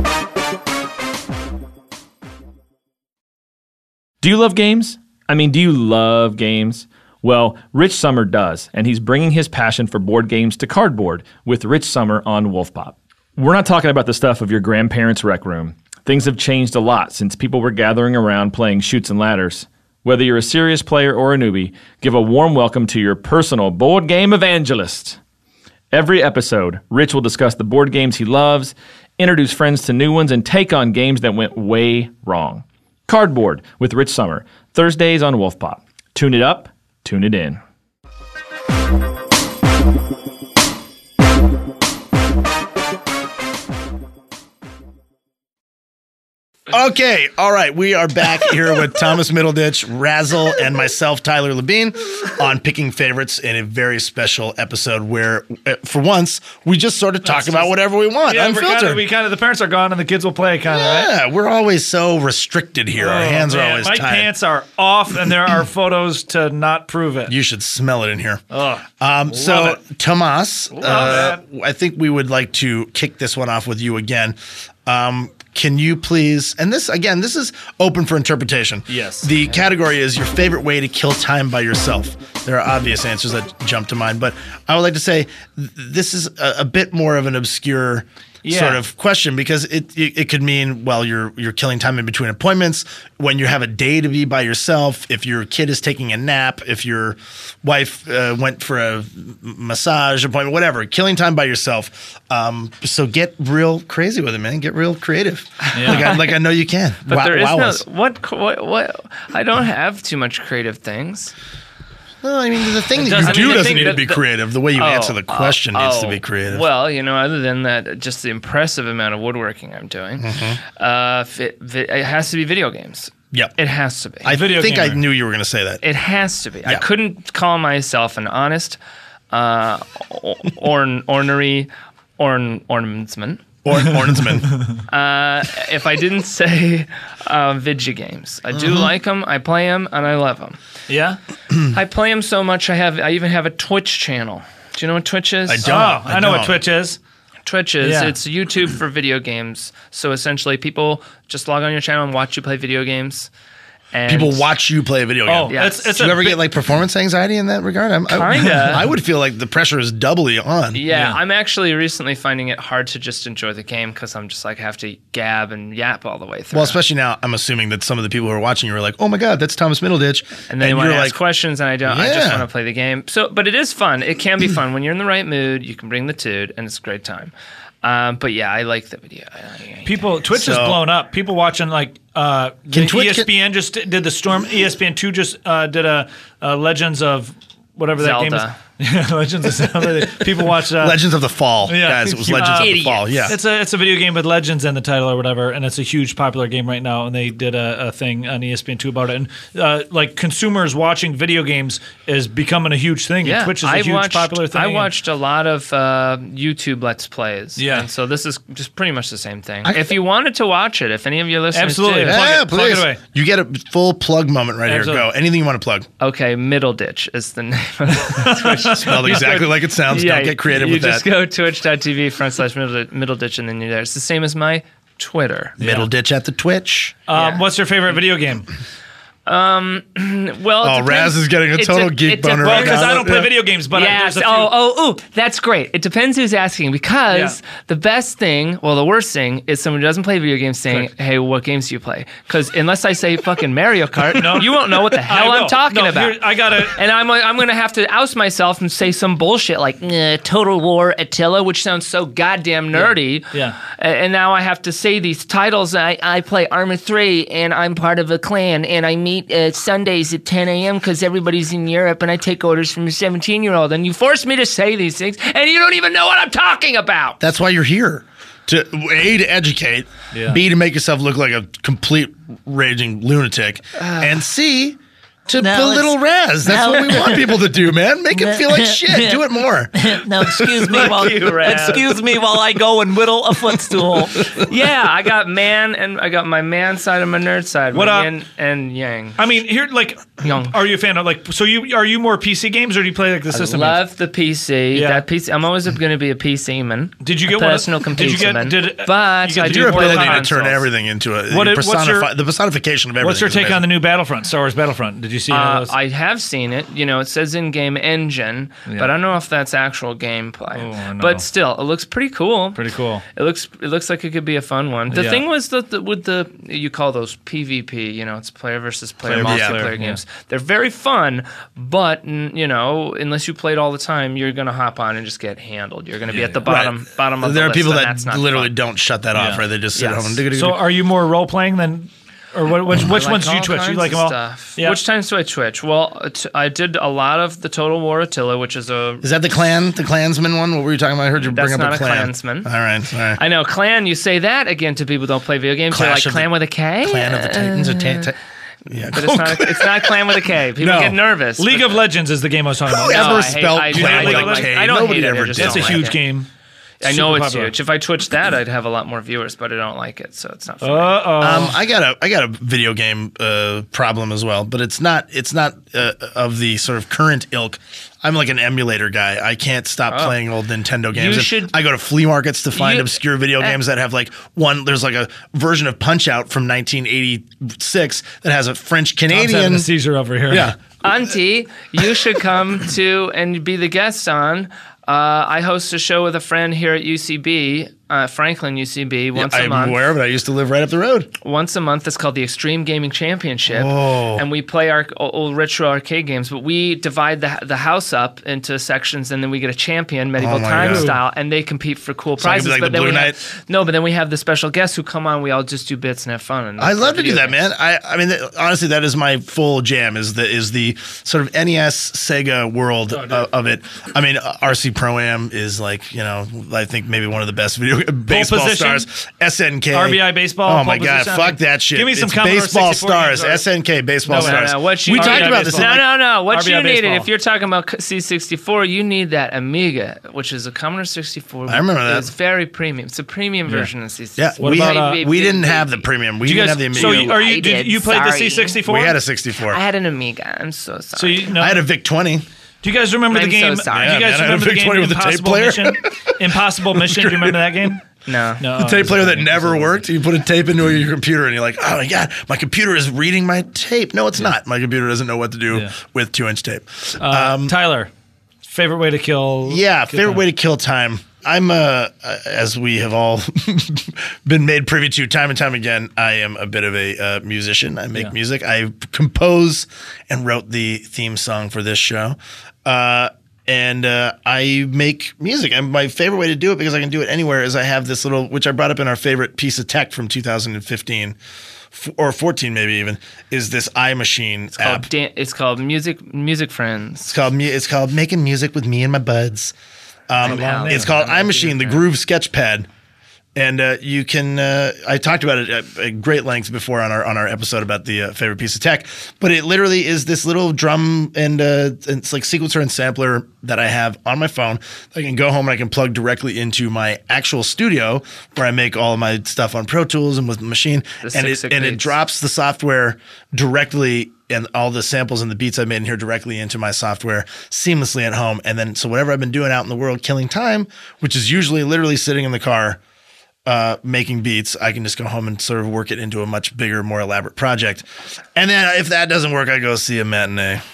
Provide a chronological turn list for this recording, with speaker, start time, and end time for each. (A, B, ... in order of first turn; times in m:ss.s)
0:04.2-0:25.2 A
0:25.9-0:37.6 A
0:46.7-0:59.0 B
0:57.2-0:57.7 C
0:58.2-1:01.1 C
1:00.6-1:04.3 B
1:03.0-1:07.3 C
1:07.3-1:08.4 B
1:08.5-1:09.8 C
1:09.0-1:47.8 B
1:10.8-1:11.4 C
1:18.9-1:19.3 C
1:28.4-1:28.8 C
1:45.7-1:46.3 D
1:45.7-1:46.1 C
1:47.1-1:51.3 D
1:52.2-1:56.6 B
1:52.9-1:54.0 C
1:53.1-1:54.2 D
1:54.7-2:04.4 D
2:00.2-2:00.6 B
2:04.2-2:05.8 B
2:04.3-2:05.0 C
2:05.8-2:08.8 D
2:09.3-2:13.4 D
2:13.6-2:14.5 B
2:14.9-2:20.6 D
2:18.5-2:18.9 B
2:20.9-2:21.2 C
2:21.7-2:25.7 D
2:25.5-2:26.6 B
2:25.6-2:27.0 C
2:27.4-2:33.3 D
2:27.8-2:28.1 C
2:33.9-2:34.5 D
2:34.1-2:40.8 B
2:35.3-2:36.5 C
2:35.5-2:35.9 D
2:38.1-2:38.9 D
2:38.4-2:38.8 C
2:40.7-2:46.8 D
2:40.9-2:41.2 C
2:46.5-2:51.2 B
2:50.5-3:00.1 D
2:51.8-2:52.4 B
2:59.8-3:11.0 C
3:00.3-3:00.8 B
3:02.7-3:03.3 B
3:08.0-3:08.6 D
3:10.2-3:13.4 B
3:11.6-3:24.9 C
3:12.4-3:13.3 D
3:23.2-3:32.3 D
3:27.6-3:27.9 C
3:29.6-3:29.9 B
3:31.5-3:33.0 C
3:32.0-3:35.9 B
3:34.6-3:35.1 C
3:36.0-3:45.6 D
3:38.0-3:39.2 C
3:38.6-3:41.0 B
3:45.6-3:45.9 C
3:45.6-3:47.0 B
3:47.1-3:48.5 C
3:47.1-3:47.4 D
3:49.2-3:53.2 D
3:50.6-3:53.3 B
3:52.4-3:54.5 C
3:53.7-4:27.2 D
3:57.1-3:57.4 C
4:04.1-4:06.8 C
4:12.7-4:13.6 C
4:27.2-4:41.9 B
4:30.1-4:30.4 C
4:33.8-4:34.1 D
4:35.4-4:35.9 E
4:36.4-4:37.4 E
4:38.1-4:39.2 E
4:39.8-4:44.3 E
4:40.6-4:42.0 D
4:40.8-4:41.6 C
4:43.7-4:44.0 B
4:44.2-4:49.2 D
4:47.7-4:48.1 C
4:49.2-4:53.8 C
4:50.2-4:50.6 D
4:53.3-5:00.6 D
4:54.7-4:55.0 C
4:57.0-5:00.5 C
4:59.4-5:03.7 B
5:01.3-5:02.1 C
5:03.0-5:05.7 C
5:05.3-5:12.6 D
5:10.5-5:11.2 C
5:12.5-5:13.0 C
5:13.1-5:28.5 D
5:14.9-5:15.2 C
5:19.0-5:20.0 C
5:19.1-5:19.7 B
5:26.1-5:26.4 C
5:26.4-5:30.6 B
5:29.1-5:29.4 C
5:29.7-5:30.2 D
5:30.3-5:34.8 C
5:32.8-5:39.1 D
5:39.0-5:43.2 B
5:41.2-5:42.5 D
5:43.2-5:48.1 D
5:45.7-5:48.2 B
5:48.7-5:51.0 B
5:48.9-5:51.8 D
5:51.4-5:54.5 C
5:52.7-5:55.9 B
5:52.9-5:56.0 D
5:55.4-5:56.3 C
5:56.8-6:01.2 D
5:56.8-5:57.5 C
6:00.6-6:01.6 C
6:01.2-6:19.7 B
6:09.9-6:10.2 D
6:10.9-6:11.5 D
6:12.5-6:13.6 D
6:19.1-6:20.5 C
6:20.3-6:20.6 B
6:20.8-6:29.9 D
6:29.1-6:31.1 B
6:31.2-6:47.5 D
6:33.5-6:34.2 B
6:40.2-6:41.0 B
6:40.5-6:41.0 C
6:42.2-6:43.2 B
6:46.6-7:05.8 B
6:52.9-6:53.3 C
6:58.1-6:58.9 C
6:59.7-7:03.4 C
7:04.0-7:07.1 C
7:04.2-7:15.8 D
7:11.5-7:12.1 B
7:14.2-7:17.1 B
7:14.4-7:15.0 C
7:16.2-7:19.0 C
7:16.8-7:18.6 D
7:18.6-7:19.6 B
7:19.4-7:21.3 D
7:21.0-7:21.6 C
7:21.4-7:22.2 B
7:22.6-7:27.8 C
7:23.1-7:24.0 D
7:23.7-7:27.7 B
7:28.0-7:28.4 D
7:28.4-7:29.8 C
7:28.5-7:37.5 B
7:37.0-7:37.9 C
7:38.4-7:40.2 C
7:39.4-8:01.2 B
8:01.7-8:04.9 B
8:04.6-8:07.2 D
8:07.1-8:09.5 B
8:10.1-8:12.7 B
8:10.2-8:11.8 D
8:10.2-8:10.9 C
8:13.3-8:42.8 B
8:31.0-8:32.0 D
8:43.4-8:50.6 B